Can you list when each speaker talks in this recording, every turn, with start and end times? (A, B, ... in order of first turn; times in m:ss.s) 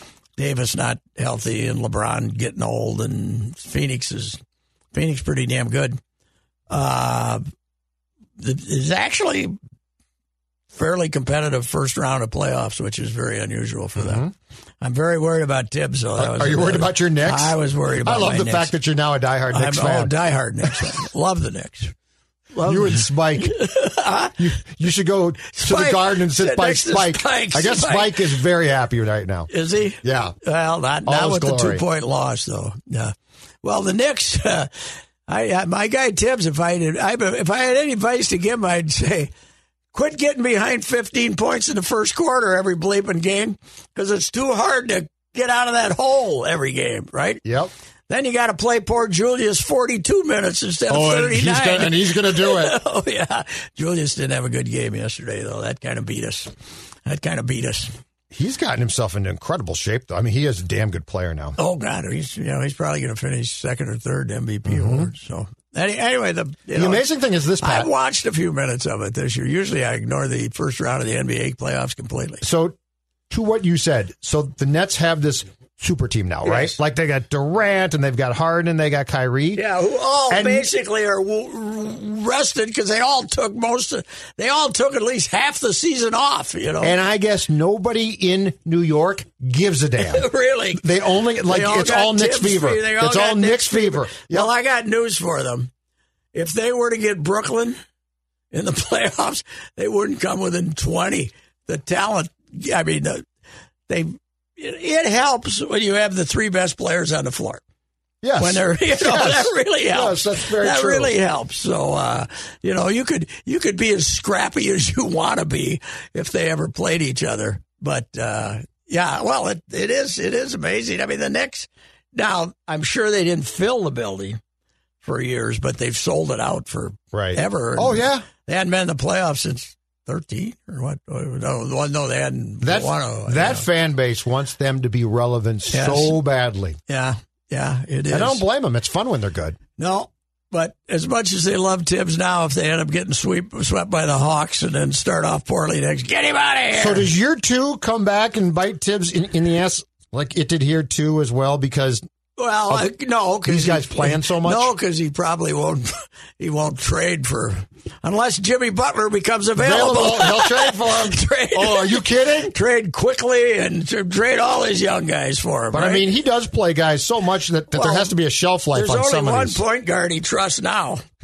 0:00.4-0:04.4 A
0:04.9-0:06.0 A
0:06.7-0:07.4 A
0:08.4-0:09.6 A
0:10.7-0:14.2 A
0:14.0-0:14.3 B
0:14.8-0:18.7 A
0:16.2-0:20.1 B
0:19.5-0:21.9 A
0:22.5-0:24.4 A
0:22.6-0:23.6 B
0:24.4-0:29.5 B
0:25.6-0:28.4 A
0:29.5-0:34.7 A
0:30.0-0:30.4 B
0:31.0-0:31.8 B
0:35.3-0:39.3 A
0:39.9-0:47.4 A
0:47.4-0:47.7 B
0:48.1-0:56.5 A
0:50.9-0:52.8 B
0:57.0-0:57.9 A
0:58.3-1:01.6 B
1:01.6-1:07.1 A
1:04.7-1:05.1 B
1:06.7-1:07.9 B
1:07.6-1:12.4 A
1:12.4-1:12.8 B
1:13.3-1:19.6 B
1:16.4-1:16.8 A
1:19.6-1:26.9 A
1:20.3-1:20.7 B
1:26.8-1:30.2 B
1:30.0-1:35.7 A
1:30.8-1:34.5 B
1:36.3-1:37.8 A
1:38.5-1:43.2 A
1:43.9-1:47.6 A
1:48.2-1:51.1 B
1:48.4-2:04.4 A
2:05.0-2:13.6 A
2:07.1-2:08.2 B
2:12.6-2:16.8 B
2:15.7-2:16.2 A
2:16.9-2:18.4 A
2:18.1-2:19.6 B
2:19.8-2:27.1 A
2:26.7-2:32.0 B
2:32.4-2:46.0 A
2:33.5-2:34.7 B
2:39.6-2:42.5 B
2:45.7-2:49.6 B
2:47.7-2:48.1 A
2:48.7-2:51.0 A